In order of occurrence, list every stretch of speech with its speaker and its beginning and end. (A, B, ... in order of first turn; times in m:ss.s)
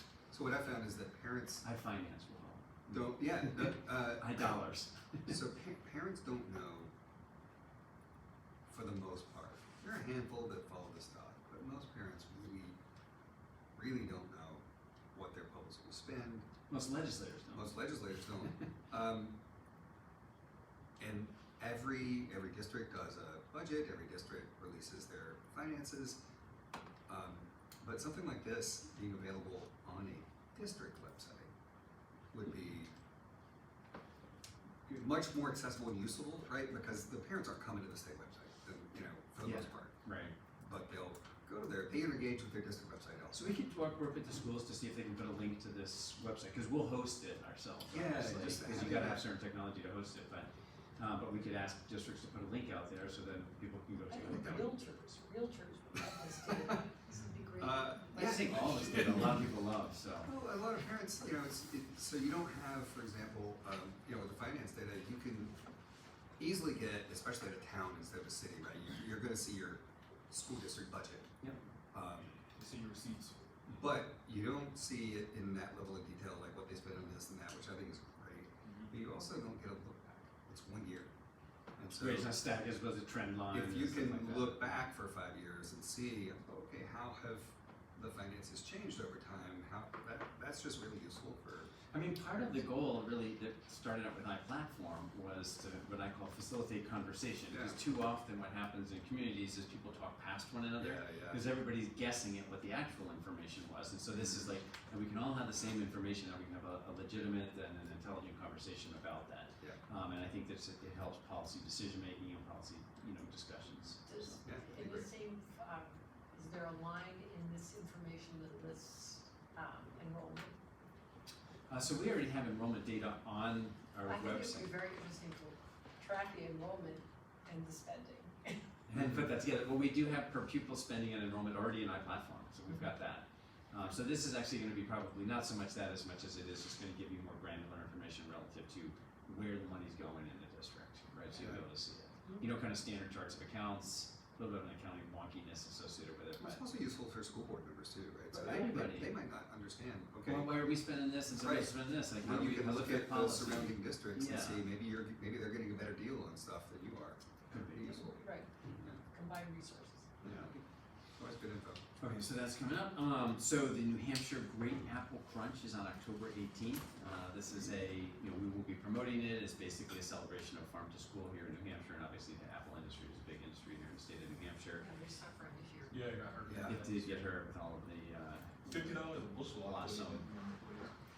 0:00.3-0:01.6 A
0:01.6-0:02.9 B
0:02.9-0:04.6 A
0:03.4-0:05.2 B
0:05.3-0:06.9 A
0:08.7-0:12.8 A
0:13.7-0:16.5 A
0:16.7-0:17.6 B
0:17.5-0:19.4 A
0:21.0-0:26.2 A
0:27.1-0:31.5 A
0:32.3-0:32.9 A
0:34.9-0:39.9 A
0:39.4-0:40.3 B
0:40.6-0:43.6 A
0:43.4-0:50.5 B
0:47.9-0:49.2 A
0:51.0-0:54.6 B
0:54.1-0:59.1 C
0:54.2-0:54.7 A
0:56.0-0:56.8 A
0:57.6-0:59.5 A
0:58.3-1:00.3 B
1:00.2-1:05.6 A
1:06.4-1:11.3 A
1:11.9-1:12.4 A
1:12.5-1:13.4 D
1:13.6-1:21.1 A
1:18.6-1:18.9 D
1:21.8-1:22.3 A
1:22.0-1:24.7 B
1:23.5-1:31.7 A
1:31.9-1:54.4 B
1:37.5-1:37.8 A
1:40.8-1:41.4 A
1:44.1-1:44.5 A
1:54.0-2:00.6 C
1:54.4-1:55.1 A
2:01.7-2:04.7 B
2:04.0-2:08.6 C
2:08.9-2:26.6 B
2:08.9-2:09.2 A
2:21.3-2:21.6 A
2:26.4-2:30.6 A
2:28.3-2:29.1 B
2:30.3-2:34.6 B
2:31.3-2:39.0 A
2:37.5-2:37.8 B
2:38.1-2:38.5 C
2:39.1-2:40.1 C
2:40.2-2:40.6 A
2:41.2-2:41.8 A
2:42.0-2:54.8 B
2:54.8-2:56.5 C
2:55.9-2:57.1 D
2:56.4-2:56.8 A
2:56.6-2:58.7 B
2:58.7-3:00.9 D
2:59.6-3:00.2 B